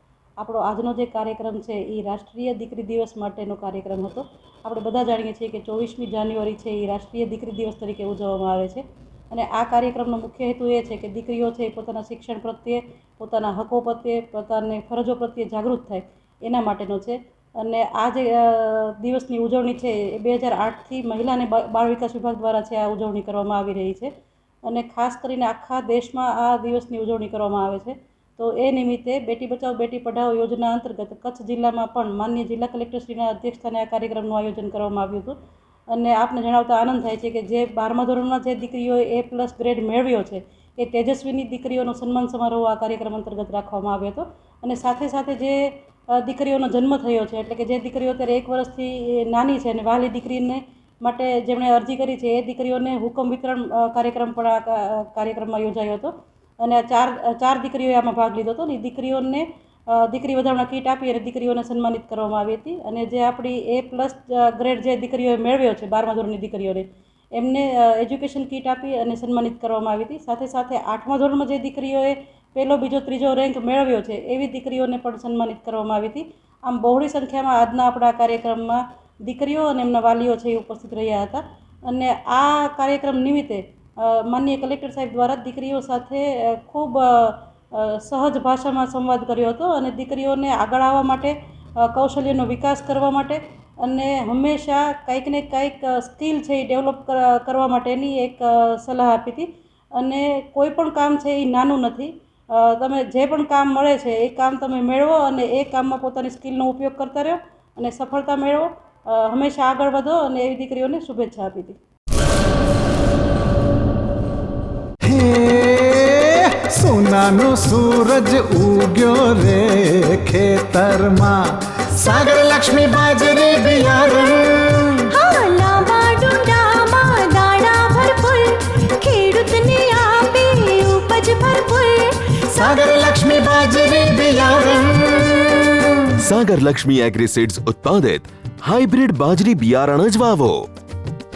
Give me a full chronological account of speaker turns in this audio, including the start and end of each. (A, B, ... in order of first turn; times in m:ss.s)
0:00.4-0:24.1 A
0:24.6-0:35.4 A
0:35.9-1:51.8 A
1:55.0-2:01.4 B
2:02.0-2:05.1 B
2:05.1-2:12.8 C
2:12.6-2:16.0 B
2:14.0-2:15.4 C
2:16.2-2:20.7 D